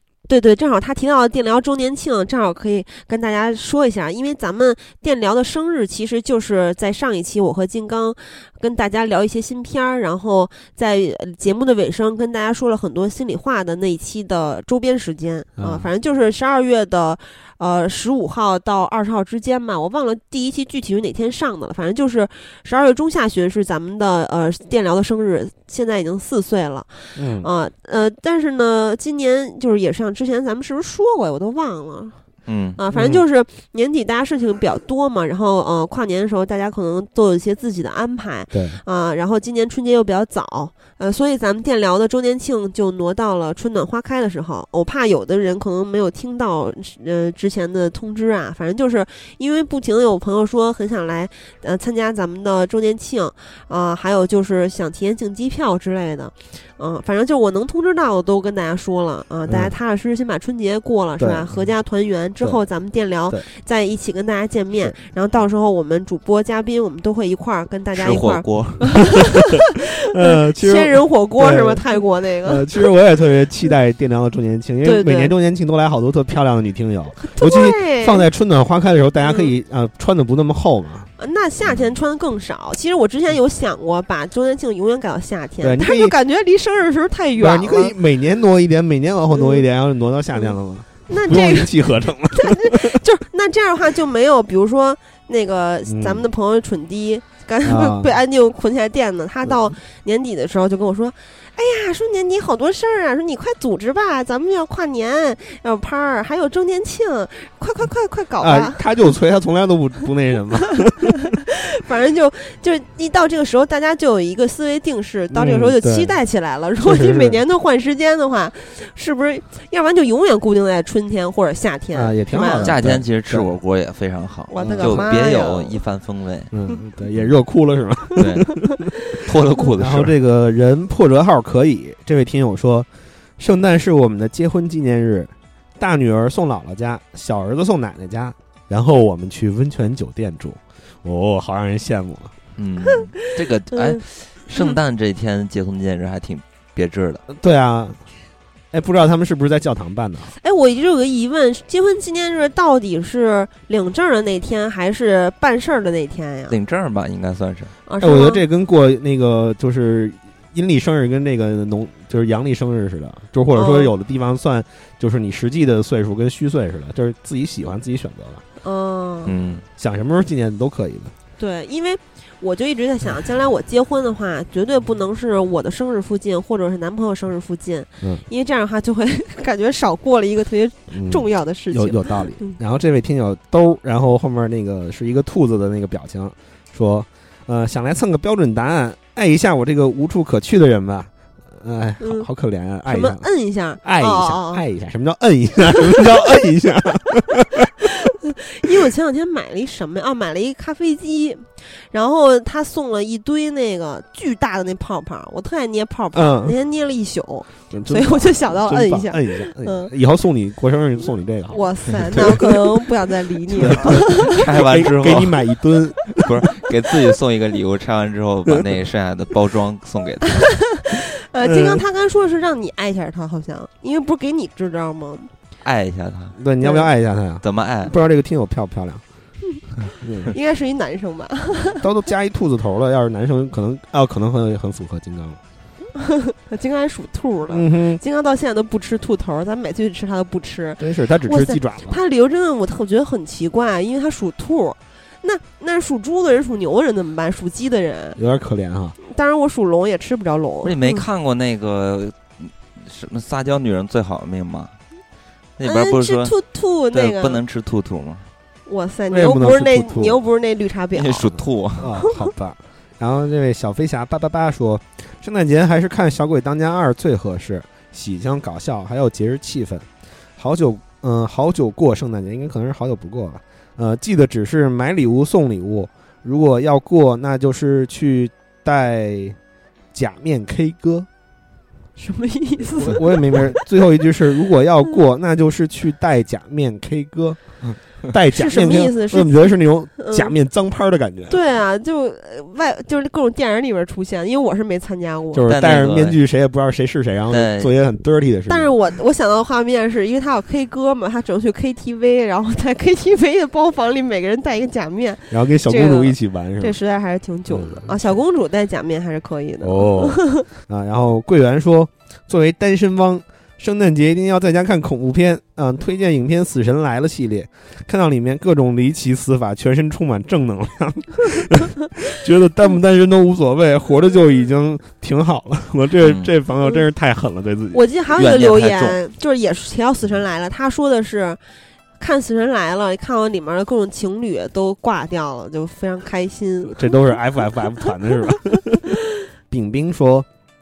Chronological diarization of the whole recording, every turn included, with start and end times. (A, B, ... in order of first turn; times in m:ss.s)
0:00.3-0:32.2 A
0:15.6-0:15.9 B
0:27.2-0:27.5 B
0:32.4-0:32.8 C
0:32.8-1:09.7 A
0:32.9-0:33.2 B
0:38.5-0:38.8 B
1:01.2-1:01.6 B
1:07.9-1:09.0 C
1:10.1-1:11.8 B
1:10.2-1:12.6 A
1:12.4-1:21.1 B
1:14.8-1:15.3 A
1:17.2-1:18.3 A
1:19.2-1:19.5 A
1:21.2-1:27.9 A
1:25.6-1:26.1 B
1:27.4-1:33.0 B
1:29.3-1:29.6 A
1:31.1-1:31.7 A
1:32.3-1:48.8 A
1:35.9-1:36.3 B
1:37.6-1:38.1 B
1:39.4-1:39.7 B
1:48.4-1:51.2 B
1:51.2-2:02.7 A
1:55.3-1:56.2 B
1:56.8-1:57.4 B
2:01.9-2:03.5 B
2:02.6-2:06.5 C
2:04.5-2:05.8 A
2:04.6-2:05.2 B
2:06.5-2:08.9 B
2:08.2-2:08.5 C
2:09.1-2:10.1 C
2:09.8-2:22.3 B
2:22.6-2:27.2 C
2:22.9-2:24.0 A
2:27.3-2:28.0 B
2:28.7-2:30.3 B
2:30.4-2:36.6 A
2:36.5-2:37.7 C
2:37.9-2:38.4 A
2:38.0-2:48.4 B
2:43.5-2:43.9 A
2:48.6-2:49.4 A
2:49.3-2:49.6 C
2:49.8-2:51.1 B
2:51.4-3:02.6 A
3:00.9-3:13.3 B
3:12.0-3:12.3 A
3:12.9-3:14.6 A
3:13.8-3:17.7 B
3:15.8-3:16.3 A
3:17.8-3:29.9 A
3:26.1-3:26.6 B
3:27.7-3:32.6 B
3:31.5-3:34.3 A
3:33.6-3:36.2 B
3:34.2-3:35.4 C
3:36.2-3:40.5 C
3:40.3-3:45.3 A
3:41.4-3:41.8 B
3:45.6-3:46.4 C
3:46.4-3:49.0 B
3:47.4-3:47.9 C
3:50.0-3:50.3 B
3:50.3-3:51.8 A
3:51.8-3:55.4 B
3:56.0-4:08.2 A
3:57.5-3:58.0 B
4:00.8-4:02.0 B
4:08.2-4:09.0 B
4:09.0-4:11.0 A
4:10.6-4:14.7 C
4:15.6-4:16.3 C
4:15.6-4:17.4 A
4:16.9-4:18.2 C
4:18.7-4:21.4 A
4:19.1-4:20.2 B
4:20.9-4:21.9 C
4:21.8-4:39.4 B
4:22.0-4:22.3 A
4:39.9-4:41.1 B
4:42.0-4:43.6 A
4:42.8-4:47.5 B
4:48.1-4:51.4 B
4:48.3-4:50.3 A
4:51.3-4:55.5 A
4:55.3-4:58.7 B
4:55.5-4:56.2 C
4:57.3-4:57.7 C
4:58.5-5:10.5 A
5:05.3-5:06.8 B
5:07.5-5:08.0 B
5:09.6-5:27.8 B
5:26.0-5:26.3 C
5:27.7-5:31.4 A
5:28.2-5:29.0 C
5:32.0-5:37.0 A
5:36.7-5:39.0 B
5:39.5-5:40.3 B